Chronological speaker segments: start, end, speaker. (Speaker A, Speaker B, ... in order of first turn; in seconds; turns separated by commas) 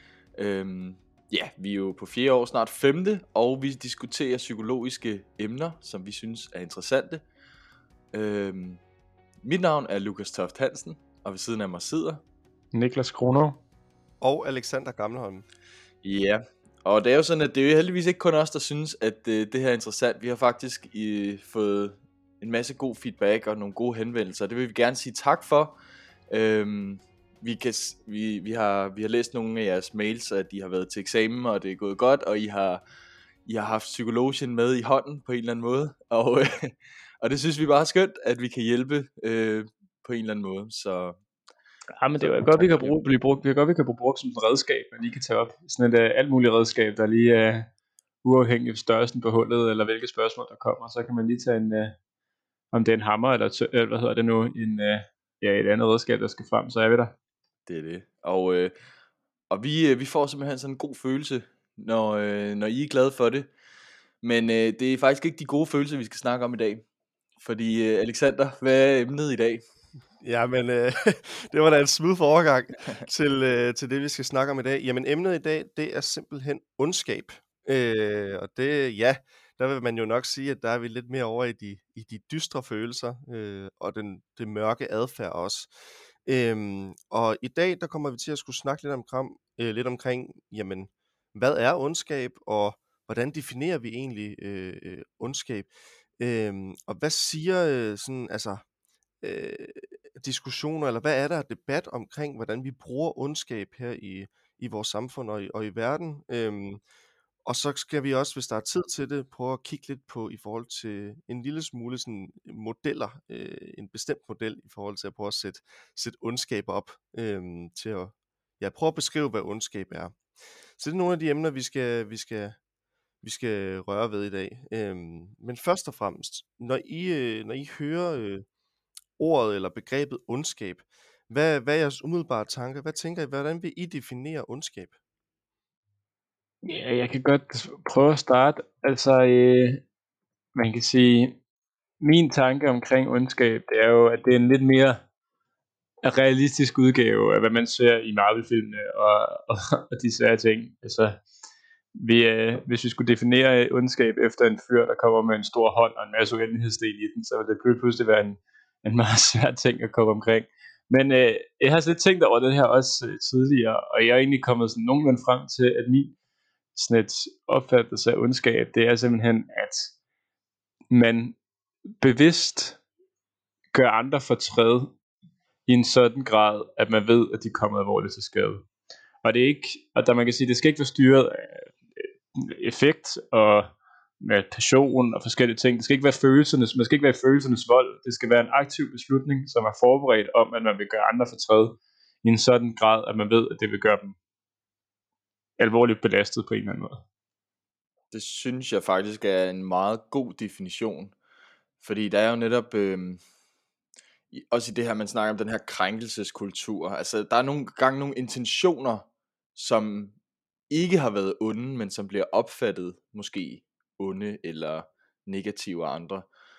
Speaker A: 0.4-7.2, Speaker A: 8.1-8.8, Speaker A: 9.4-12.2, Speaker B: 12.7-13.6, Speaker C: 14.2-15.5, Speaker A: 16.0-25.8, Speaker A: 26.3-32.8, Speaker A: 33.5-41.2, Speaker B: 42.0-47.7, Speaker A: 42.2-43.0, Speaker B: 48.2-52.0, Speaker B: 52.7-57.1, Speaker A: 57.7-58.7, Speaker A: 59.5-63.5, Speaker A: 64.2-66.8, Speaker A: 67.4-69.6, Speaker C: 70.2-85.7, Speaker C: 86.3-98.6, Speaker C: 99.2-106.8, Speaker C: 107.5-120.2, Speaker C: 120.8-122.6, Speaker C: 123.2-128.4, Speaker C: 129.2-134.9, Speaker B: 136.6-139.8, Speaker B: 140.6-141.4, Speaker B: 142.0-145.0, Speaker B: 146.0-151.2, Speaker B: 152.0-166.2, Speaker B: 166.7-169.9, Speaker B: 170.9-171.4, Speaker B: 172.0-172.8, Speaker B: 173.7-174.9, Speaker B: 175.7-178.7, Speaker B: 179.2-181.7, Speaker B: 182.4-183.7, Speaker B: 184.2-194.2, Speaker B: 195.6-197.0, Speaker A: 198.1-201.1, Speaker A: 201.8-203.2, Speaker A: 204.3-210.2, Speaker A: 210.7-216.3